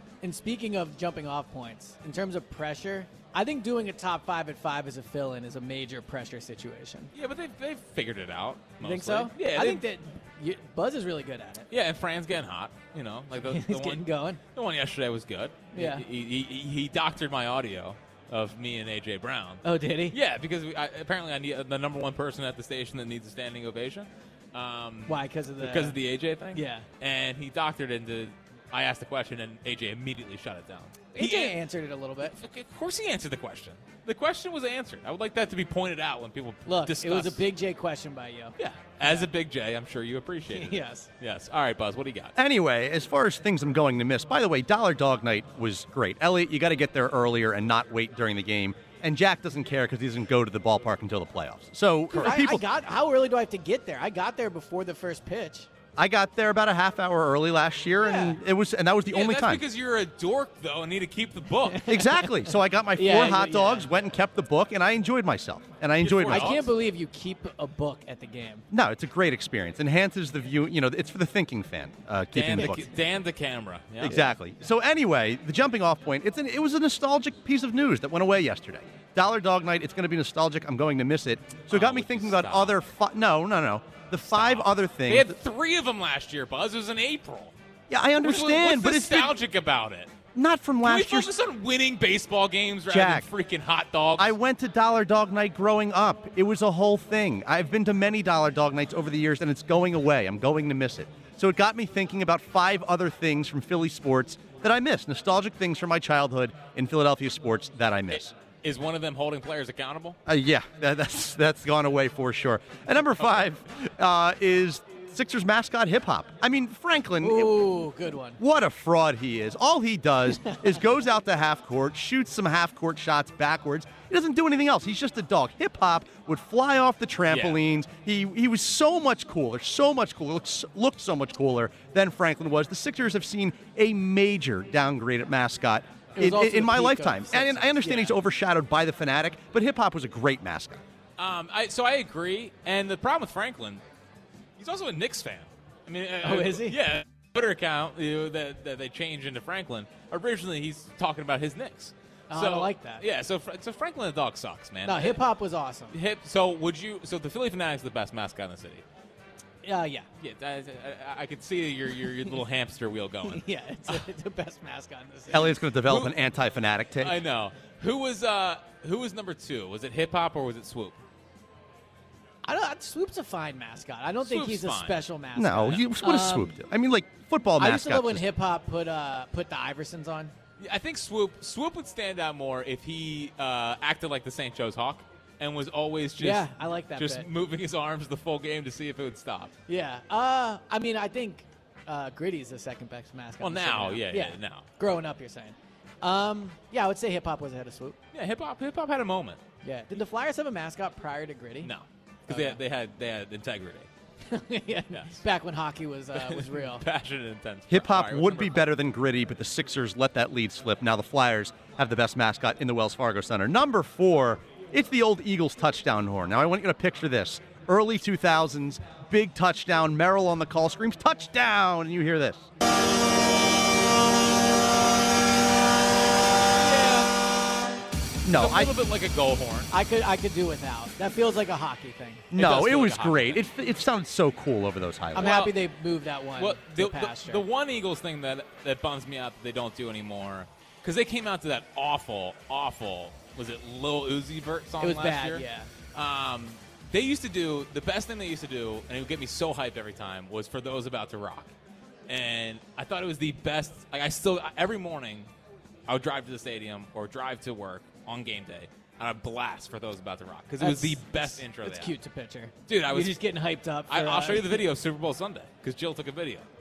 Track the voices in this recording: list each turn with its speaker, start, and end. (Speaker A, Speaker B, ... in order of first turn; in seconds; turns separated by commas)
Speaker A: 0.2-7.1, Speaker B: 7.1-9.8, Speaker A: 8.8-11.7, Speaker B: 11.7-31.6, Speaker A: 13.4-14.4, Speaker A: 15.7-16.0, Speaker A: 19.6-20.1, Speaker A: 25.1-26.0, Speaker A: 26.5-26.9, Speaker A: 31.1-32.4, Speaker B: 32.2-37.5, Speaker A: 36.6-39.2, Speaker B: 38.6-42.3, Speaker A: 40.5-41.1, Speaker C: 42.4-52.6, Speaker A: 52.1-55.7, Speaker C: 56.0-59.6, Speaker A: 58.0-58.4, Speaker B: 59.1-61.9, Speaker A: 61.7-62.4, Speaker C: 61.9-66.6, Speaker A: 63.0-63.9, Speaker B: 66.0-66.7, Speaker A: 66.2-68.6, Speaker C: 68.7-72.9, Speaker B: 72.3-74.2, Speaker C: 74.0-85.3, Speaker B: 81.7-82.8, Speaker B: 84.2-87.5, Speaker C: 87.9-89.3, Speaker B: 88.2-90.1, Speaker C: 90.3-91.3, Speaker B: 90.8-94.3, Speaker C: 92.9-93.3, Speaker C: 94.2-108.3, Speaker B: 108.6-110.2, Speaker C: 110.3-117.7, Speaker A: 117.2-118.4, Speaker C: 118.4-140.8, Speaker B: 127.3-127.6, Speaker A: 136.2-138.2, Speaker B: 141.2-143.8, Speaker B: 144.6-155.2, Speaker A: 146.2-146.8, Speaker A: 152.3-153.0, Speaker A: 154.8-155.9, Speaker B: 155.9-158.8, Speaker A: 159.6-160.1, Speaker B: 160.2-164.0, Speaker A: 163.2-165.6, Speaker C: 165.3-167.2, Speaker B: 165.8-166.1, Speaker B: 167.0-171.0, Speaker A: 172.4-176.5, Speaker B: 174.2-175.0, Speaker C: 175.3-178.2, Speaker A: 177.6-180.3, Speaker B: 180.6-189.5, Speaker A: 186.2-187.3, Speaker A: 189.7-198.0, Speaker B: 193.4-194.7, Speaker B: 198.1-199.4, Speaker A: 199.6-201.7, Speaker B: 201.6-203.9, Speaker A: 202.3-202.6, Speaker A: 204.3-206.8, Speaker B: 204.9-205.2, Speaker B: 206.1-208.7, Speaker C: 207.7-222.5, Speaker B: 226.6-227.1, Speaker C: 228.2-228.7, Speaker B: 228.3-229.7, Speaker A: 229.7-232.3, Speaker C: 232.3-235.3, Speaker B: 232.3-233.4, Speaker A: 235.1-237.4, Speaker B: 235.2-235.5, Speaker B: 236.4-251.5, Speaker A: 244.8-245.7, Speaker B: 252.1-255.3, Speaker B: 255.9-261.9, Speaker A: 260.6-264.6, Speaker B: 262.7-263.2, Speaker B: 263.9-266.5